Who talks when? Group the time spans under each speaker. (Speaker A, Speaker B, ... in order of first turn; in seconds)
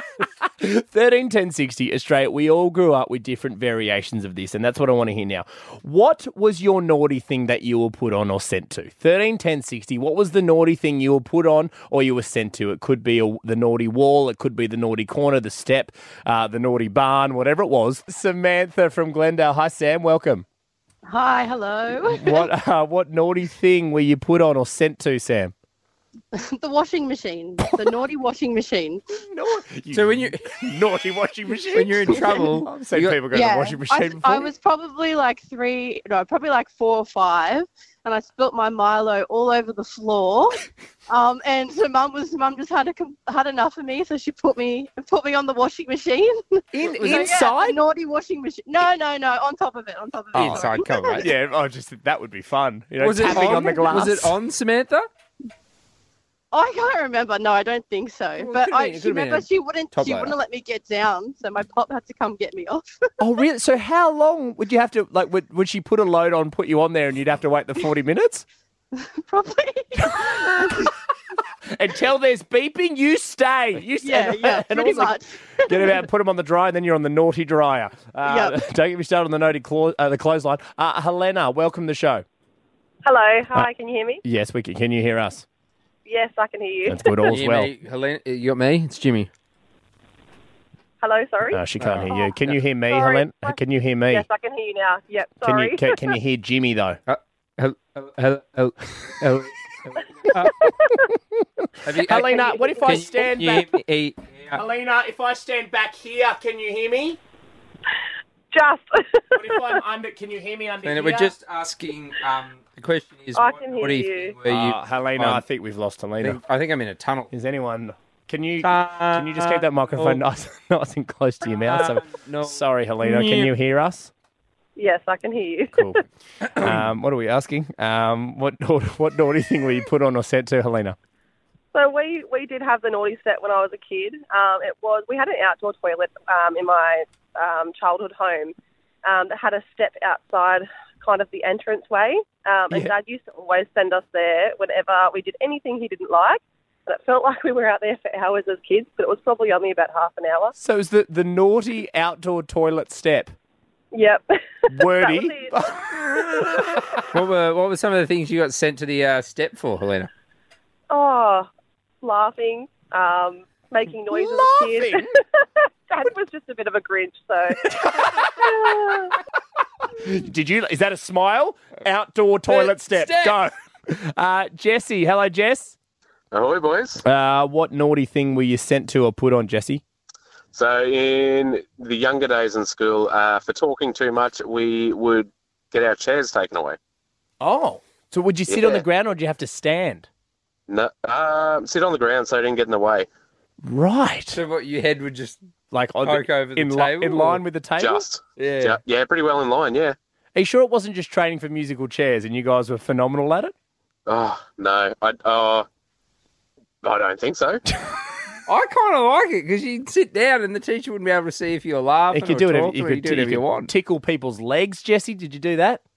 Speaker A: 0.6-20.4, 22.1-25.5, 29.1-34.5, 46.7-47.8, 51.1-54.4, 63.2-68.5, 70.0-70.9, 71.7-82.2, 84.2-85.5, 86.9-87.7, 91.5-94.3, 95.4-97.0, 101.9-103.8, 104.5-107.2, 109.3-111.3, 114.5-116.4, 117.3-124.1, 125.7-126.0, 126.6-131.0, 150.6-153.3, 154.7-157.1, 164.1-165.1, 167.6-168.8, 169.9-175.8, 177.1-179.8, 187.4-190.1, 193.6-194.4, 195.7-198.1, 200.3-203.5, 212.1-215.8
Speaker B: 21.1-22.5, 26.3-29.0, 33.3-51.2, 53.5-53.7, 56.5-62.9, 69.0-70.9, 74.0-76.0, 78.2-78.6
Speaker C: 29.9-30.5, 31.7-33.2, 47.0-47.3, 50.3-51.3, 53.0-55.1, 58.4-60.4, 87.3-89.3, 91.8-92.2, 97.1-100.6, 101.8-104.6, 110.8-115.4, 116.2-117.3, 118.6-120.2, 121.6-123.5, 126.4-126.9, 157.1-160.1, 172.5-173.4, 194.3-195.4, 196.0-197.4, 198.4-198.8, 208.5-213.7
Speaker D: 83.0-84.2, 86.1-87.3, 91.0-91.6, 92.9-93.6, 94.1-96.0, 108.5-109.8, 113.3-114.4, 124.8-126.0, 131.7-138.5, 139.1-150.5, 153.9-155.6, 160.9-161.5, 162.0-165.1, 165.6-167.7, 168.3-169.2
Speaker E: 176.3-177.0, 180.5-186.8, 188.5-188.8, 190.7-193.1, 197.8-199.9, 204.1-205.7, 206.8-207.6